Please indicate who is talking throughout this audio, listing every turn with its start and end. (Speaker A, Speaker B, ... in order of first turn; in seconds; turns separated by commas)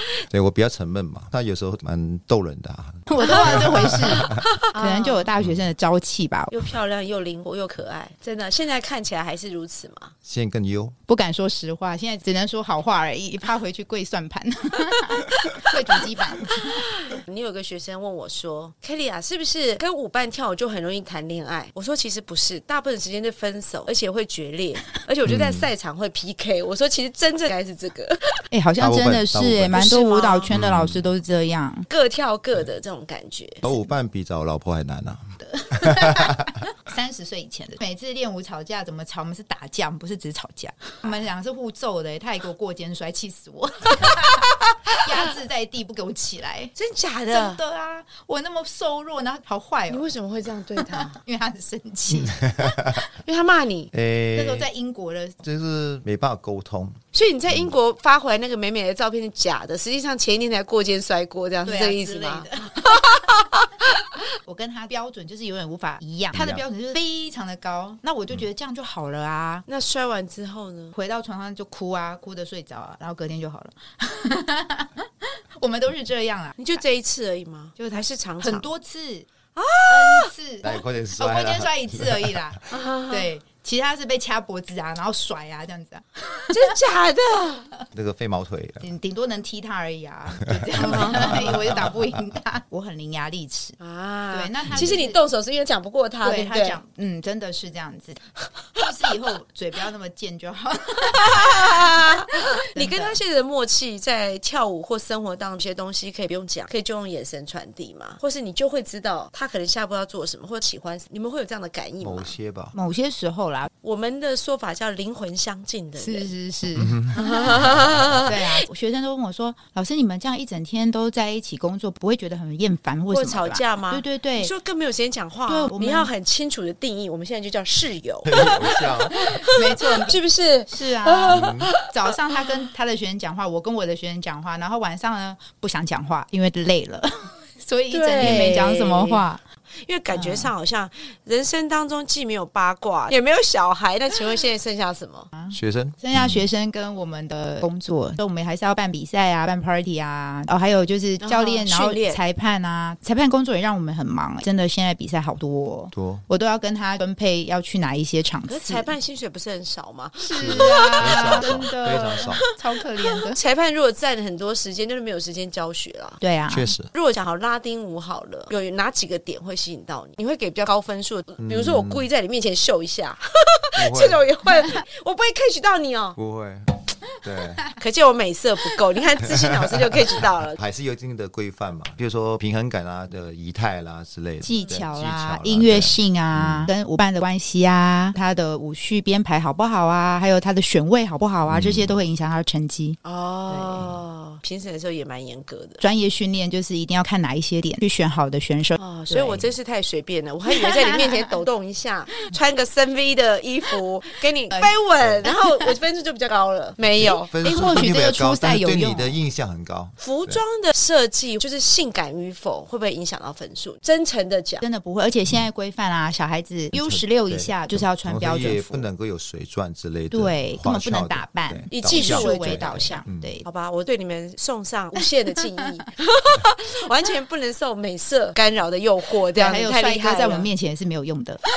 Speaker A: 0.3-4.4, Speaker B: 3.1-6.5, Speaker C: 4.0-5.3, Speaker C: 6.5-10.1, Speaker A: 10.2-10.9, Speaker B: 11.1-16.8, Speaker C: 16.5-28.4, Speaker A: 25.2-25.7, Speaker B: 28.5-31.9, Speaker A: 28.8-29.9, Speaker C: 29.7-30.5, Speaker A: 30.5-31.1, Speaker C: 31.9-33.6, Speaker A: 33.6-36.5, Speaker B: 35.4-46.7, Speaker C: 46.8-47.6, Speaker B: 47.3-50.1, Speaker C: 49.9-51.2, Speaker B: 50.8-52.7, Speaker A: 52.1-53.1, Speaker C: 53.2-53.9, Speaker A: 53.9-54.7, Speaker B: 54.3-55.4, Speaker A: 55.4-57.0, Speaker C: 57.1-64.0, Speaker B: 61.6-63.2, Speaker B: 64.4-69.6, Speaker A: 66.3-66.6, Speaker C: 69.7-71.0, Speaker B: 71.0-76.8, Speaker C: 76.6-78.7, Speaker B: 77.8-79.3, Speaker C: 79.5-80.3, Speaker B: 79.8-86.7, Speaker A: 80.6-82.5, Speaker C: 82.7-83.3, Speaker C: 86.5-87.7, Speaker A: 87.9-88.9, Speaker B: 88.8-93.8, Speaker A: 90.5-92.0, Speaker C: 90.8-91.5, Speaker C: 93.8-96.8, Speaker B: 94.3-95.2, Speaker B: 96.2-98.2, Speaker B: 98.7-103.2, Speaker C: 101.0-112.3, Speaker A: 112.0-112.7, Speaker B: 112.7-113.7, Speaker C: 113.8-116.3, Speaker B: 116.0-117.5, Speaker A: 116.7-117.9, Speaker C: 117.1-118.4, Speaker B: 118.2-124.5, Speaker C: 123.1-132.5, Speaker B: 125.5-126.1, Speaker A: 128.2-129.3, Speaker B: 129.5-139.4, Speaker A: 131.3-131.7, Speaker C: 137.9-139.2, Speaker A: 138.2-138.6, Speaker C: 139.8-145.3, Speaker B: 140.1-140.5, Speaker B: 145.3-158.9, Speaker A: 145.5-146.5, Speaker C: 151.2-152.2, Speaker A: 155.9-156.2, Speaker C: 158.5-162.5, Speaker B: 160.2-163.4, Speaker A: 160.4-162.4, Speaker C: 163.0-166.2, Speaker B: 166.2-166.7, Speaker A: 166.5-166.9, Speaker C: 166.9-176.2, Speaker A: 171.4-172.0, Speaker A: 173.8-174.2, Speaker A: 176.2-177.6, Speaker C: 177.8-180.6, Speaker A: 179.2-186.7, Speaker B: 184.4-193.0, Speaker A: 191.5-192.0, Speaker C: 193.0-195.8, Speaker B: 193.5-193.9, Speaker B: 195.8-199.4, Speaker C: 198.8-207.3, Speaker B: 200.6-201.3, Speaker A: 205.0-205.3, Speaker A: 207.0-210.4, Speaker B: 207.4-209.2, Speaker C: 210.0-214.6, Speaker B: 214.6-218.9, Speaker A: 216.7-223.4, Speaker B: 220.1-223.4, Speaker C: 221.7-230.5, Speaker B: 229.3-231.4